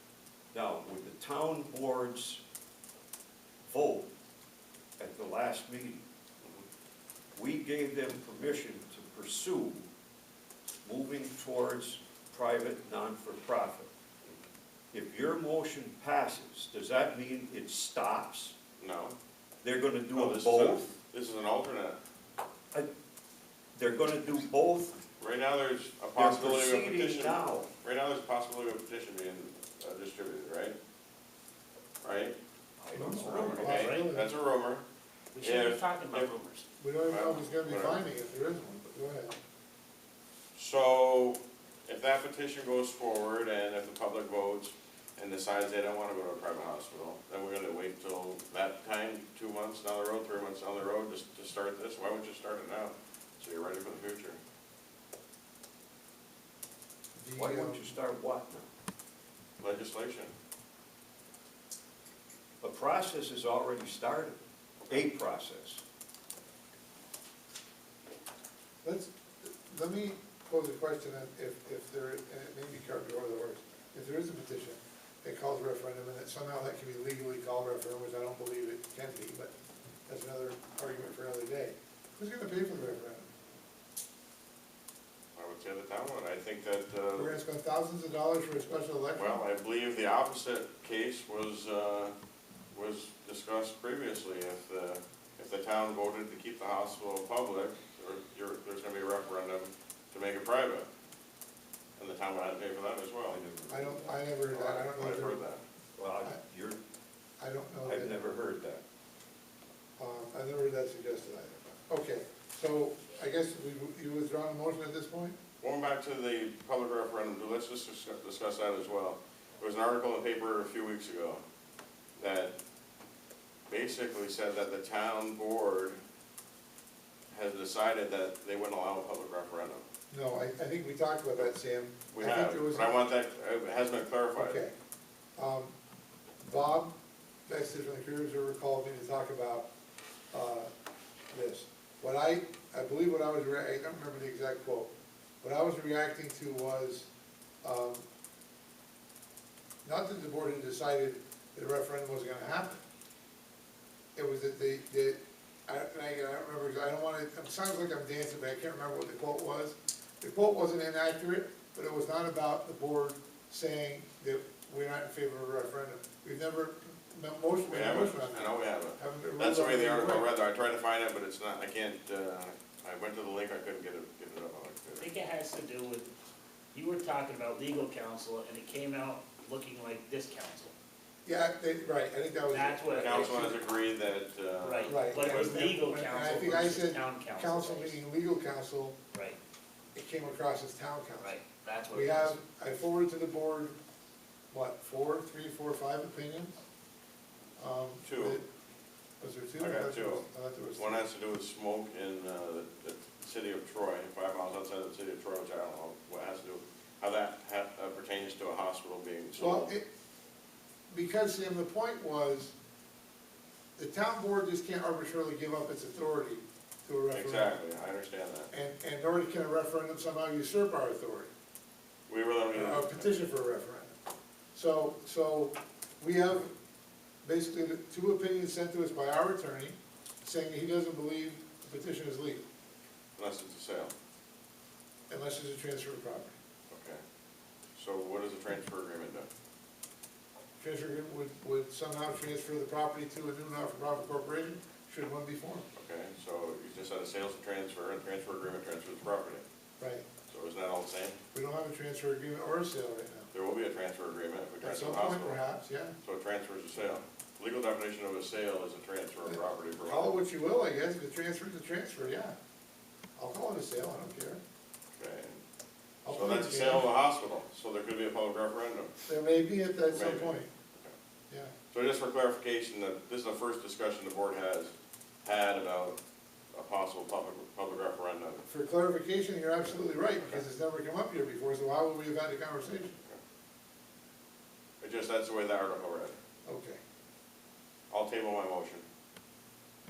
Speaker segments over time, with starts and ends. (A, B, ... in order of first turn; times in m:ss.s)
0:00.5-0:02.4 A
0:03.6-0:04.1 A
0:05.0-0:06.0 A
0:07.4-0:09.9 A
0:10.8-0:13.9 A
0:14.9-0:18.5 A
0:18.8-0:19.2 B
0:19.6-0:20.9 A
0:20.1-0:22.0 B
0:23.7-0:25.0 A
0:25.2-0:30.8 B
0:26.1-0:27.7 A
0:32.0-0:32.4 B
0:32.8-0:33.7 A
0:32.9-0:34.3 C
0:33.2-0:34.2 D
0:33.3-0:34.8 B
0:35.3-0:36.6 D
0:35.4-0:36.3 B
0:36.8-0:39.3 C
0:37.1-0:38.0 B
0:40.5-0:54.4 B
0:57.2-0:57.9 C
0:57.3-0:58.7 A
0:59.6-1:00.3 B
1:02.6-1:05.8 A
1:04.8-1:05.1 B
1:08.8-1:19.5 C
1:20.1-1:23.3 C
1:25.4-1:27.3 B
1:27.1-1:29.4 C
1:29.1-1:32.1 B
1:32.7-1:40.9 B
1:42.0-1:43.4 B
1:43.3-1:44.2 A
1:43.7-1:45.4 C
1:44.5-1:45.6 B
1:46.0-1:46.8 A
1:47.4-1:48.2 C
1:47.8-1:48.8 A
1:50.0-1:55.4 C
1:55.6-2:01.4 B
2:02.2-2:02.5 B
2:03.7-2:06.0 B
2:07.3-2:09.8 B
2:10.1-2:12.9 C
2:12.1-2:14.6 B
2:14.4-2:14.7 C
2:15.4-2:15.7 C
2:16.4-2:16.9 C
2:17.5-2:19.7 C
2:20.3-2:20.7 C
2:21.3-2:24.9 C
2:25.4-2:27.1 C
2:27.6-2:28.0 C
2:29.8-2:32.8 C
2:34.1-2:50.3 C
2:47.6-2:55.1 B
2:55.0-2:56.1 D
2:56.7-3:00.7 D
3:01.2-3:03.6 C
3:02.5-3:03.6 D
3:03.0-3:05.6 B
3:04.6-3:08.0 D
3:04.8-3:09.0 C
3:09.1-3:09.4 D
3:09.9-3:11.3 C
3:11.2-3:12.4 D
3:11.9-3:13.8 C
3:14.5-3:16.6 C
3:17.6-3:18.4 C
3:18.0-3:18.4 B
3:19.2-3:21.0 C
3:19.6-3:20.2 B
3:20.8-3:29.7 B
3:29.4-3:29.8 C
3:30.9-3:32.5 C
3:33.8-3:37.6 C
3:37.1-3:38.5 B
3:38.5-3:41.3 C
3:42.1-3:43.1 B
3:42.5-3:44.0 C
3:44.5-3:46.5 C
3:47.2-3:52.4 C
3:53.2-3:53.9 B
3:55.1-3:56.3 C
3:56.7-3:57.0 B
3:57.8-3:59.3 B
4:00.6-4:05.6 C
4:05.7-4:09.4 B
4:09.8-4:10.0 C
4:10.3-4:11.2 B
4:11.3-4:13.3 C
4:13.3-4:15.4 B
4:14.6-4:16.0 C
4:16.0-4:20.2 B
4:19.2-4:22.3 C
4:23.2-4:24.4 C
4:25.0-4:25.4 B
4:26.0-4:26.9 C
4:26.1-4:28.9 B
4:29.0-4:30.5 C
4:29.9-4:30.9 B
4:31.7-4:34.7 B
4:35.2-4:36.0 B
4:36.5-4:38.4 B
4:38.5-4:43.0 C
4:44.8-4:46.1 B
4:46.4-4:46.8 C
4:47.9-4:48.8 B